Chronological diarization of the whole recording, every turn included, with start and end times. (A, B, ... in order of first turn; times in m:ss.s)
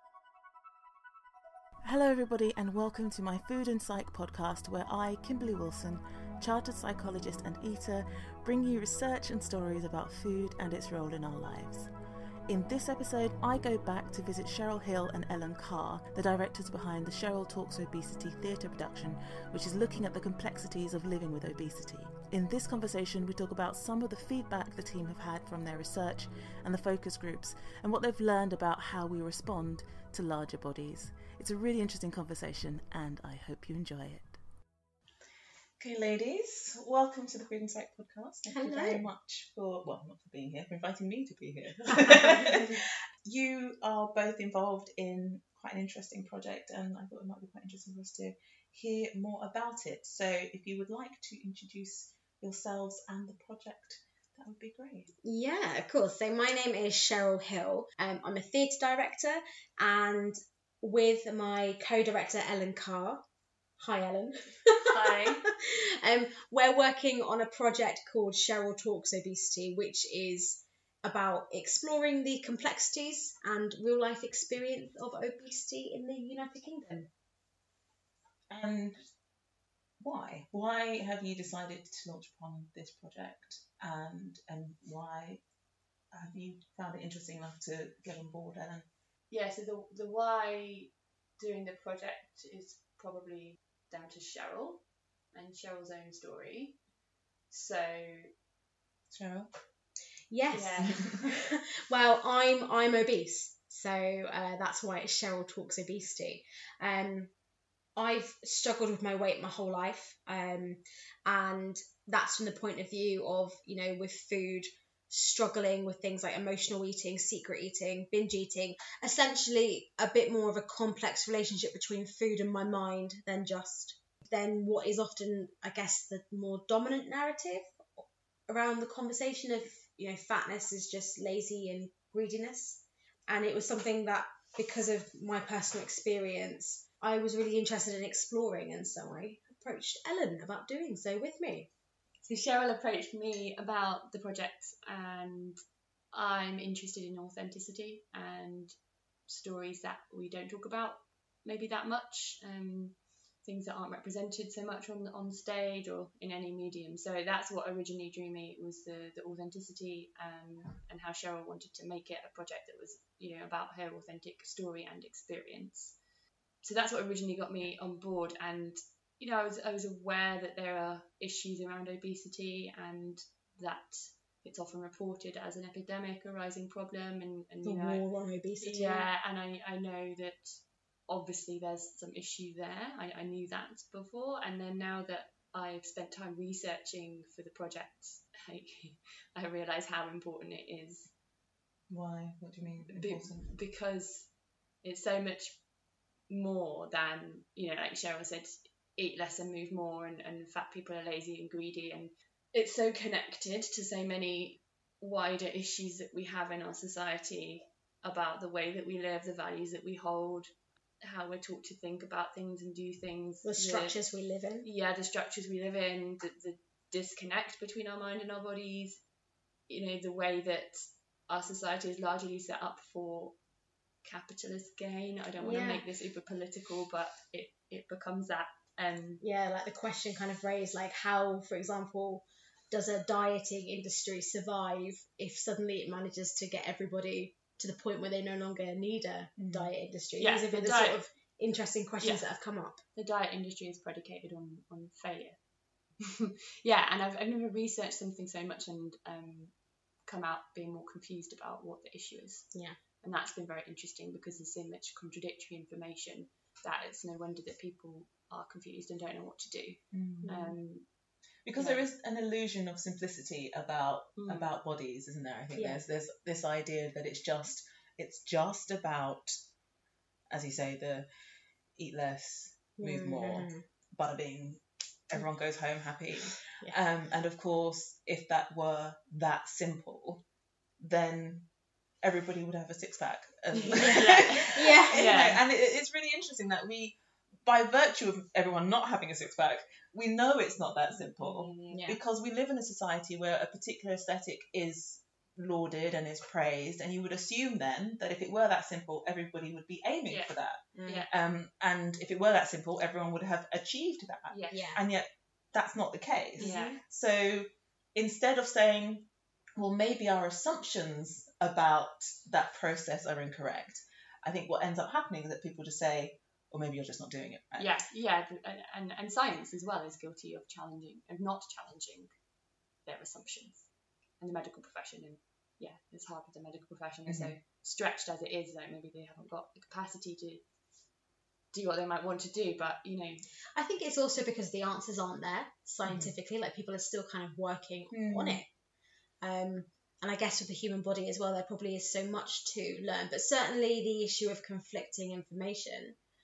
0:01.8-0:11.9 A
0:12.5-0:34.4 A
0:35.8-0:55.1 B
0:38.5-0:39.1 C
0:41.9-0:42.8 C
0:55.2-1:03.2 C
1:03.8-1:17.1 C
1:04.8-1:05.5 D
1:18.5-1:19.0 B
1:20.0-1:25.4 B
1:26.1-1:28.9 B
1:29.3-1:34.8 D
1:35.3-1:36.8 D
1:37.5-1:38.3 D
1:39.1-1:39.5 B
1:40.3-1:47.3 C
1:40.5-1:41.1 D
1:40.8-1:41.3 B
1:48.0-2:07.7 C
2:08.5-2:21.7 C
2:22.2-2:25.6 D
2:26.1-2:28.8 D
2:29.3-2:46.0 D
2:46.6-2:58.0 D
2:57.6-2:59.1 C
2:58.6-3:11.1 D
3:11.9-3:13.5 B
3:12.9-3:14.3 D
3:14.8-3:15.6 D
3:16.3-3:30.5 D
3:31.0-3:34.0 D
3:33.4-3:34.7 C
3:34.6-3:39.0 D
3:39.7-3:43.4 D
3:44.0-3:49.2 D
3:45.4-3:45.9 C
3:49.2-4:02.8 C
3:59.4-3:59.7 B
4:00.2-4:01.0 D
4:03.0-4:05.4 D
4:06.0-4:09.5 D
4:10.1-4:12.5 D
4:13.0-4:20.8 D
4:19.9-4:20.6 B
4:21.5-4:29.4 B
4:21.6-4:21.9 D
4:24.2-4:24.5 D
4:25.6-4:25.8 C
4:30.3-4:31.1 B
4:31.8-4:40.2 B
4:32.8-4:33.6 C
4:40.8-4:41.5 B
4:42.0-5:00.6 B
4:43.5-4:45.4 D
4:43.7-4:45.3 C
4:50.9-4:51.8 D
4:51.7-4:52.0 C
5:00.1-5:00.4 D
5:00.8-5:01.1 C
5:00.9-5:01.1 D
5:01.1-5:17.7 B
5:04.3-5:04.7 D
5:04.5-5:04.8 C
5:06.4-5:06.8 C
5:06.4-5:06.8 D
5:17.6-5:22.1 D
5:22.8-5:23.7 D
5:24.2-5:30.4 D
5:27.1-5:27.3 B
5:31.5-5:33.2 D
5:33.6-5:38.5 C
5:35.9-5:36.1 B
5:37.9-5:38.4 B
5:39.2-5:46.0 C